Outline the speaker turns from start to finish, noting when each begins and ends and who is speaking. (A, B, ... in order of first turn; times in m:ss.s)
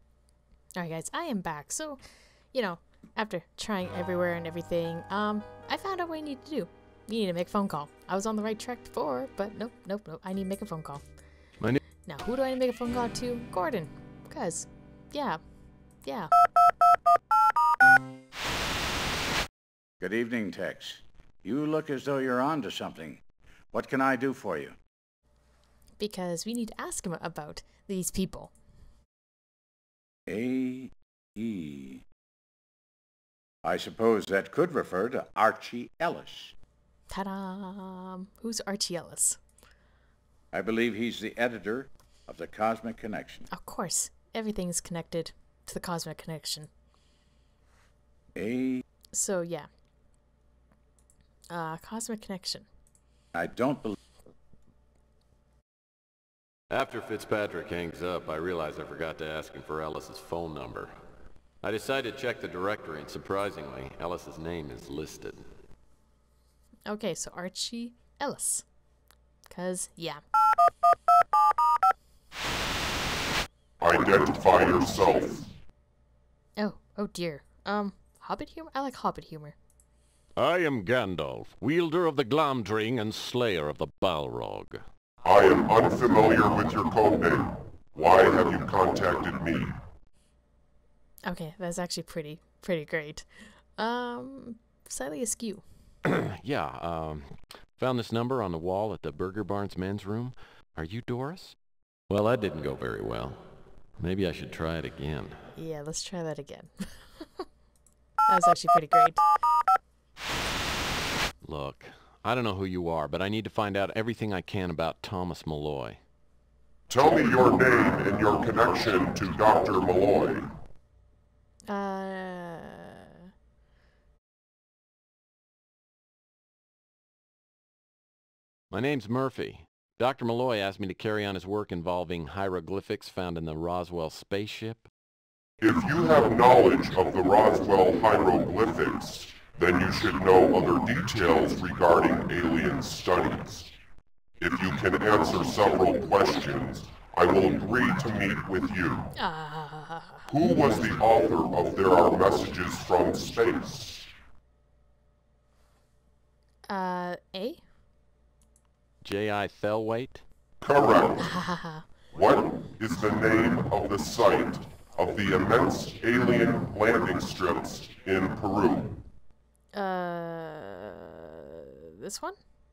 0:00.7-0:11.0 A
0:12.0-0:15.4 A
0:16.0-0:16.3 A
0:20.0-0:24.8 B
0:26.0-0:28.5 A
0:30.3-0:32.0 B
0:33.6-0:36.5 B
0:37.1-0:39.4 A
0:40.5-0:43.5 B
0:43.5-0:46.7 A
0:48.3-0:48.8 B
0:49.1-0:49.7 A
0:51.5-0:52.7 A
0:53.3-0:54.0 B
0:56.7-1:01.0 C
1:01.6-1:05.5 C
1:06.9-1:08.6 A
1:09.5-1:10.2 A
1:13.8-1:15.5 D
1:16.6-1:19.6 A
1:20.4-1:24.8 C
1:25.2-1:29.7 D
1:31.2-1:35.6 A
1:36.0-1:41.6 C
1:42.1-1:43.4 C
1:44.0-1:45.4 C
1:45.5-1:47.4 A
1:48.3-1:49.2 A
1:51.4-1:56.0 C
1:56.9-2:00.5 D
2:01.7-2:03.2 A
2:08.7-2:14.9 C
2:15.6-2:23.7 D
2:24.4-2:29.1 D
2:29.2-2:30.3 A
2:30.3-2:34.1 D
2:36.7-2:37.6 A
2:39.0-2:40.2 C
2:40.6-2:41.4 D
2:41.2-2:41.9 A
2:42.1-2:49.0 D
2:49.7-2:52.4 A